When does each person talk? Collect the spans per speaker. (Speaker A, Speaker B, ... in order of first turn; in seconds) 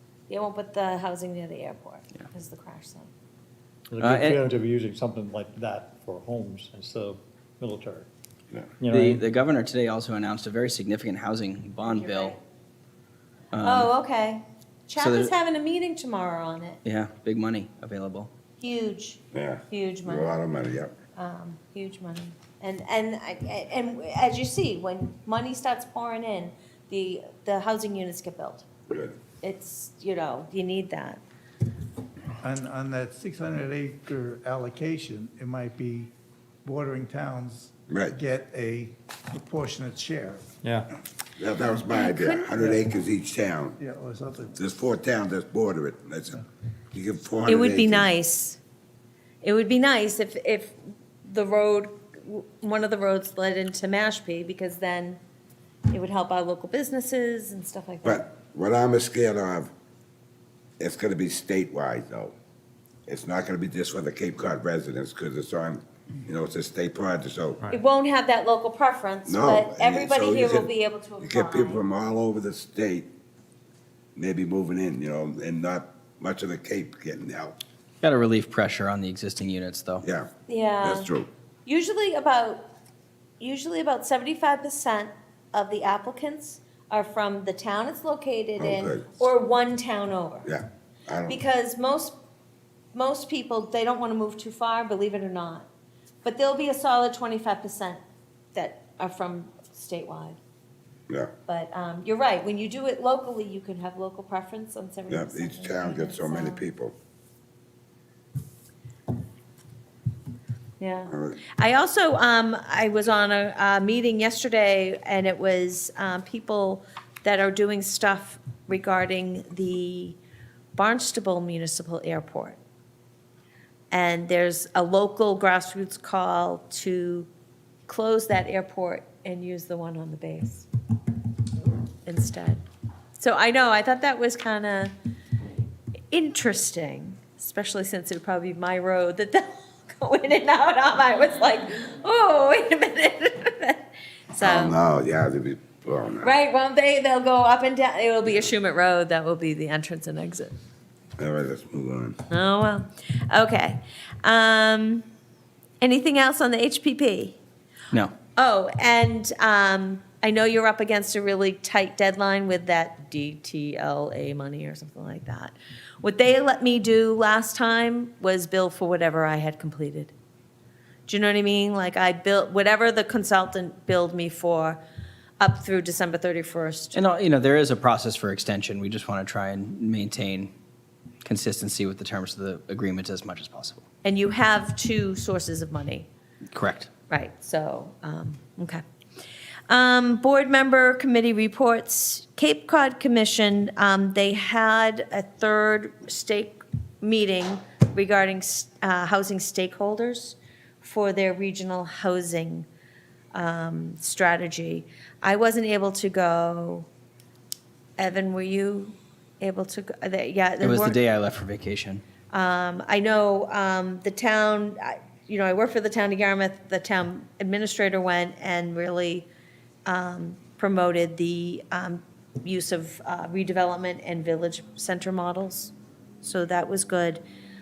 Speaker A: 0.3-3.1, 11.9-12.4, 13.6-16.8, 18.6-20.4, 21.1-28.6, 29.4-31.2, 41.9-42.5, 47.5-48.6, 49.4-55.2, 55.9-58.2, 67.7-71.8, 80.5-81.1, 81.7-82.7, 83.4-90.5, 91.3-92.2, 92.9-95.7, 96.2-98.0, 98.5-100.4, 101.5-106.6, 110.8-120.2, 120.7-122.6, 123.9-127.3, 127.9-130.7, 132.1-132.6, 133.2-134.9, 136.1-144.8, 146.2-150.6, 152.3-155.0, 155.8-157.4, 158.3-170.1, 171.1-174.8, 175.4-177.0, 184.0-186.1, 187.1-188.8, 189.7-202.7, 203.3-206.9, 208.0-211.0, 212.3-219.3, 219.8-227.2
Speaker B: 3.9-8.1, 8.8-9.2, 40.6-40.9
Speaker C: 4.0-4.4, 8.9-12.4, 13.5-13.9, 15.0-15.3, 16.8-18.3, 78.0-80.0, 176.9-180.5, 181.2-183.8, 186.5-186.9, 210.6-212.0
Speaker D: 19.3-20.9, 28.9-29.1, 37.9-38.1, 41.4-43.8, 44.5-46.4, 46.9-48.1, 58.0-59.7, 60.8-62.3, 63.1-67.6, 69.2-73.1, 74.2-77.5, 80.0-80.3, 80.8-81.3, 88.6-89.2, 90.4-91.4, 105.1-106.9, 111.1-111.4, 144.4-146.3, 151.2-152.2
Speaker E: 32.4-36.1, 36.6-40.6, 42.5-42.9, 43.8-44.6